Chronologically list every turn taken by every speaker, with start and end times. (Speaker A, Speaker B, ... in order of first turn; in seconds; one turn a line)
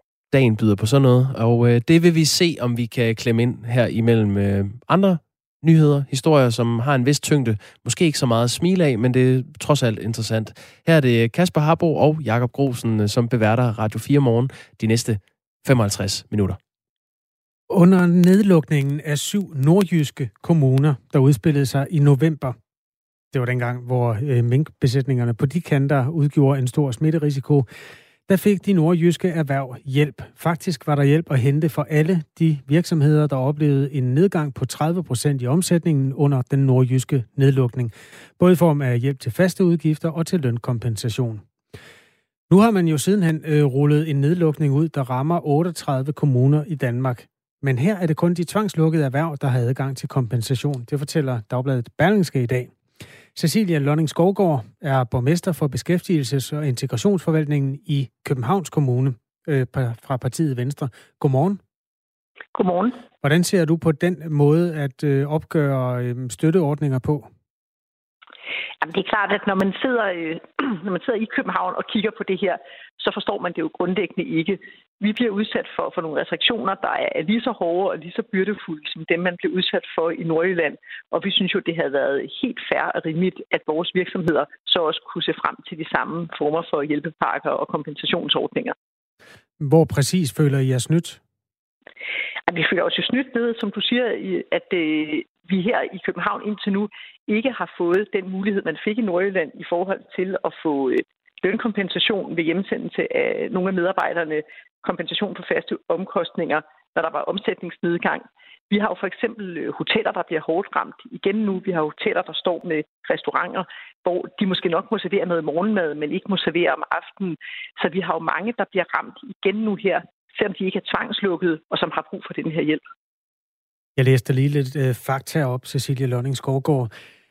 Speaker A: 0.3-16.6
Speaker B: 17.7-22.6
Speaker B: 23.3-27.7
Speaker B: 28.3-41.4
Speaker B: 42.5-52.7
Speaker B: 53.4-61.6
Speaker C: 62.5-63.0
Speaker B: 63.2-67.3
Speaker C: 68.8-88.8
Speaker B: 89.6-91.2
Speaker C: 92.5-122.8
Speaker B: 124.0-126.9